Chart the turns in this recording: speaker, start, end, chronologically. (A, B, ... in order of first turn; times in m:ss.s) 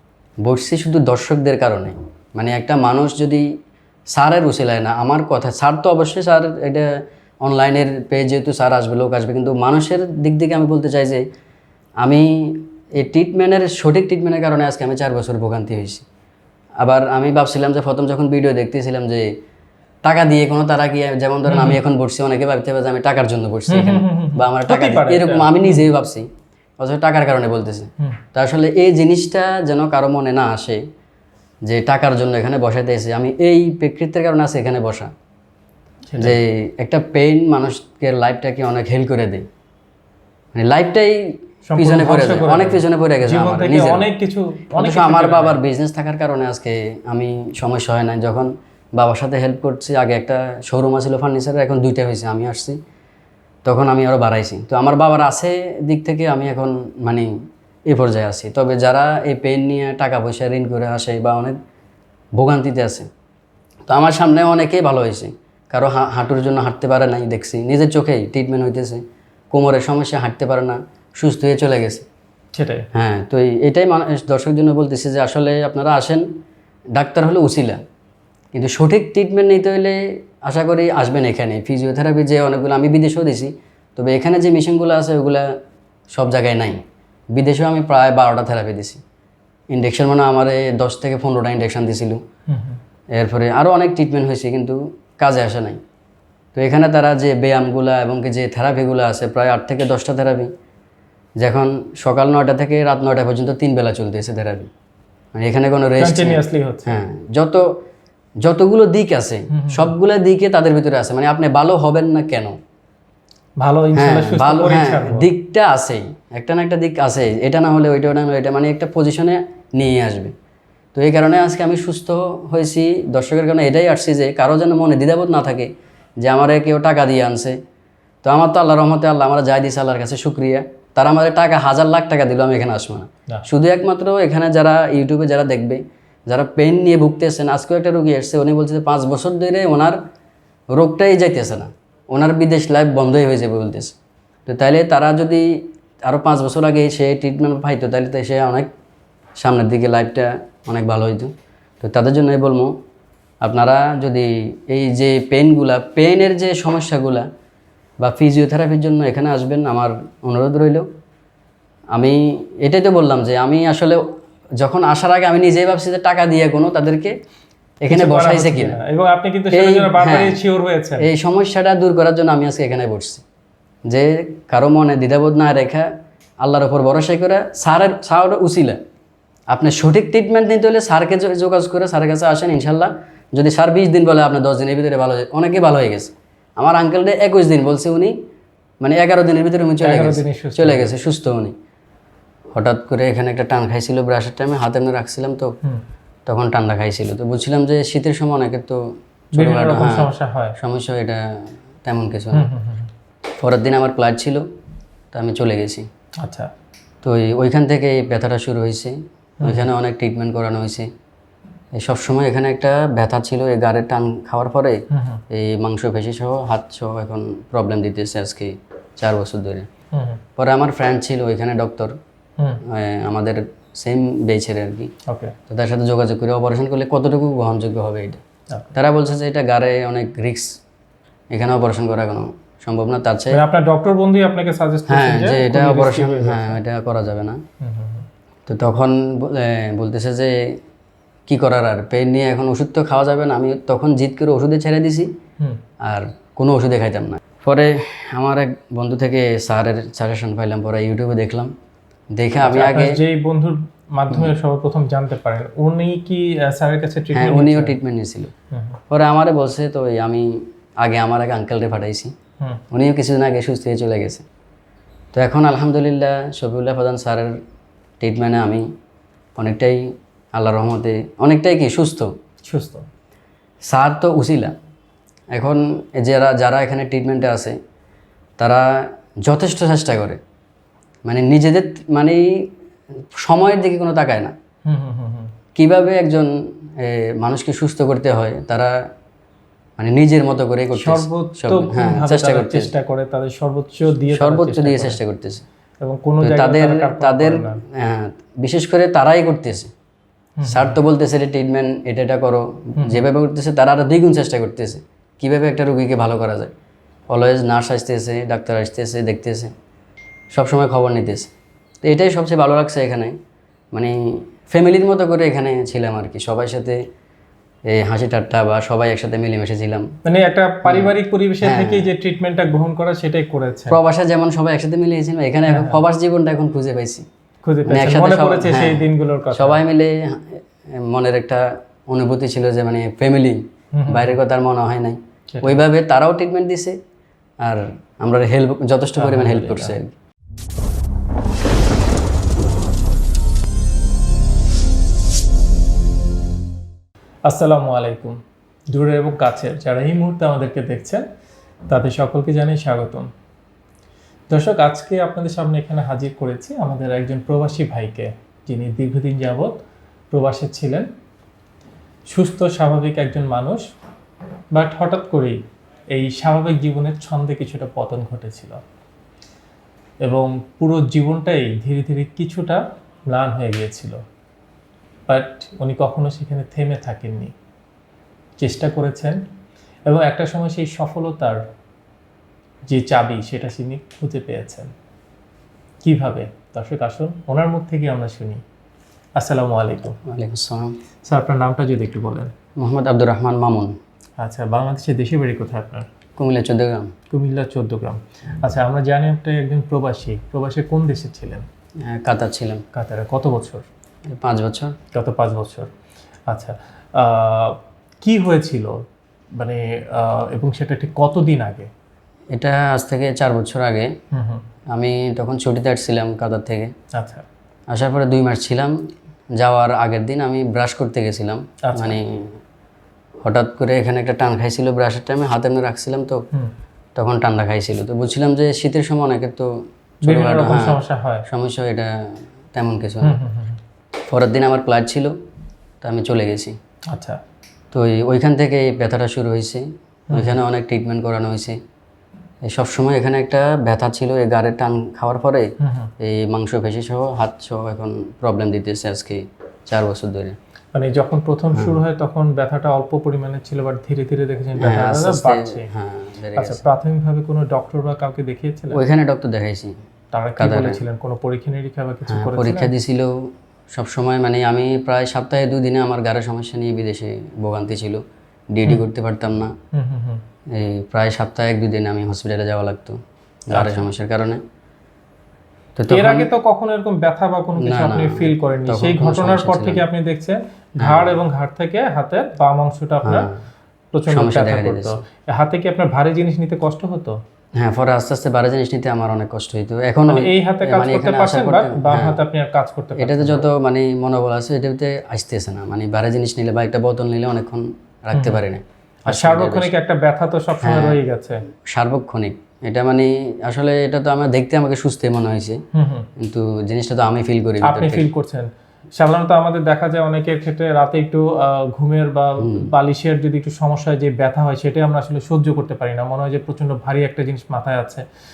0:00.4-0:03.5 A
0:04.1-0:06.9 A
0:07.4-0:11.3 A
0:12.0-0:16.0 A
0:16.8-0:19.4 A
0:20.0-0:30.8 A
0:21.5-0:21.8 B
0:23.7-0:25.9 B
0:31.6-0:35.1 A
0:36.1-0:36.4 B
0:36.2-0:39.5 A
0:40.6-0:44.1 A
0:41.7-0:45.6 B
0:44.8-0:52.8 A
0:53.6-0:57.3 A
0:57.9-1:01.6 A
1:02.4-1:03.1 A
1:03.9-1:12.0 A
1:12.5-1:12.9 B
1:12.9-1:16.3 A
1:16.9-1:17.8 A
1:18.5-1:25.6 A
1:26.1-1:26.8 A
1:27.3-1:29.0 A
1:29.7-1:32.2 A
1:32.5-1:32.8 B
1:33.1-1:35.8 A
1:36.6-1:40.5 A
1:41.4-1:44.7 A
1:45.4-1:47.8 A
1:46.0-1:47.0 B
1:48.4-1:52.6 A
1:49.5-1:49.9 B
1:53.6-1:55.3 B
1:54.0-2:00.3 A
2:01.0-2:07.6 A
2:08.2-2:20.0 A
2:20.7-2:23.9 A
2:24.5-2:28.7 A
2:29.4-2:32.8 A
2:33.4-2:37.3 A
2:38.0-2:40.9 A
2:41.9-2:44.0 A
2:44.6-2:47.2 A
2:47.8-2:48.8 A
2:47.9-2:51.1 B
2:49.5-2:50.4 A
2:51.0-2:53.2 A
2:53.9-2:55.9 A
2:56.4-2:58.8 A
2:59.5-3:08.2 A
3:08.8-3:11.6 A
3:09.8-3:10.9 B
3:12.6-3:15.5 A
3:16.3-3:22.5 A
3:19.4-3:20.6 B
3:22.3-3:22.9 B
3:23.4-3:24.4 A
3:25.1-3:25.9 A
3:26.2-3:26.5 B
3:27.0-3:30.9 A
3:29.4-3:29.7 B
3:31.7-3:39.7 A
3:34.9-3:35.2 B
3:39.9-3:40.2 B
3:40.4-3:42.0 A
3:42.6-3:44.9 A
3:45.1-3:45.4 B
3:45.5-3:48.2 A
3:48.7-3:50.6 A
3:51.3-3:53.4 A
3:53.3-3:56.6 B
3:54.9-3:57.4 A
3:57.6-3:58.1 B
3:58.5-4:00.6 A
4:01.3-4:05.1 A
4:05.8-4:11.5 A
4:12.1-4:13.0 A
4:12.4-4:17.8 B
4:17.1-4:18.3 A
4:18.5-4:18.8 B
4:18.9-4:22.2 A
4:22.7-4:24.2 A
4:25.1-4:27.4 A
4:28.0-4:28.7 A
4:29.4-4:32.1 A
4:32.4-4:32.9 B
4:33.6-4:34.6 A
4:35.3-4:37.6 A
4:38.4-4:40.2 A
4:41.0-4:42.5 A
4:43.2-4:44.3 A
4:44.6-4:45.3 B
4:45.6-4:48.9 A
4:49.8-4:52.7 A
4:50.8-4:55.0 B
4:54.1-4:55.4 A
4:55.8-4:57.6 B
4:56.2-4:59.7 A
5:00.4-5:00.8 B
5:00.4-5:06.5 A
5:02.8-5:03.1 B
5:07.1-5:09.5 A
5:10.3-5:11.3 A
5:11.8-5:13.2 A
5:13.7-5:16.8 A
5:17.7-5:19.9 A
5:20.0-5:23.8 B
5:20.6-5:21.9 A
5:23.7-5:27.0 A
5:25.5-5:25.8 B
5:27.4-5:29.6 B
5:27.7-5:36.8 A
5:33.7-5:34.2 B
5:35.3-5:35.6 B
5:37.4-5:40.0 A
5:39.0-5:39.8 B
5:47.3-5:48.2 B
5:48.7-5:51.1 B
5:51.7-5:53.1 B
5:54.3-6:00.9 B
6:02.1-6:03.6 B
6:04.5-6:05.4 B
6:05.9-6:08.6 B
6:10.0-6:14.0 B
6:15.1-6:17.3 B
6:18.4-6:19.2 B
6:19.9-6:21.4 B
6:22.7-6:24.7 B
6:25.8-6:28.4 B
6:29.2-6:30.0 B
6:30.0-6:30.8 A
6:31.0-6:32.3 B
6:32.6-6:33.8 A
6:34.2-6:35.9 B
6:36.2-6:36.9 A
6:37.1-6:41.5 B
6:41.8-6:42.6 A
6:42.7-6:43.7 B
6:44.1-6:44.8 A
6:44.9-6:45.7 B
6:46.3-6:51.7 B
6:52.3-6:53.9 A
6:54.1-6:54.5 B
6:54.7-6:56.7 A
6:56.9-6:57.2 B
6:57.7-7:02.4 A
7:01.6-7:02.0 B
7:03.2-7:06.3 A
7:07.0-7:13.2 A
7:10.0-7:11.3 B
7:13.0-7:13.6 B
7:14.0-7:15.1 A
7:15.8-7:16.6 A
7:16.9-7:17.2 B
7:17.7-7:21.6 A
7:20.1-7:20.4 B
7:22.4-7:30.4 A
7:25.6-7:25.9 B
7:30.7-7:35.7 B
7:34.6-7:36.6 A
7:36.4-7:38.8 B
7:38.7-7:39.8 A
7:40.1-7:42.7 B
7:40.4-7:40.8 A
7:42.1-7:49.6 A
7:49.7-7:50.2 B
7:50.5-7:54.4 A
7:53.5-7:53.9 B
7:55.8-7:56.3 A
7:55.9-8:03.3 B
7:57.6-7:59.9 A
8:00.8-8:01.2 A
8:03.0-8:03.4 A
8:03.9-8:07.2 B
8:04.1-8:05.0 A
8:07.6-8:12.2 A
8:10.1-8:13.4 B
8:13.0-8:19.7 A
8:18.1-8:18.4 B
8:19.1-8:21.4 B
8:20.6-8:21.0 A
8:21.7-8:25.6 A
8:25.7-8:26.1 B
8:26.2-8:28.0 A
8:27.6-8:38.1 B
8:32.4-8:32.7 A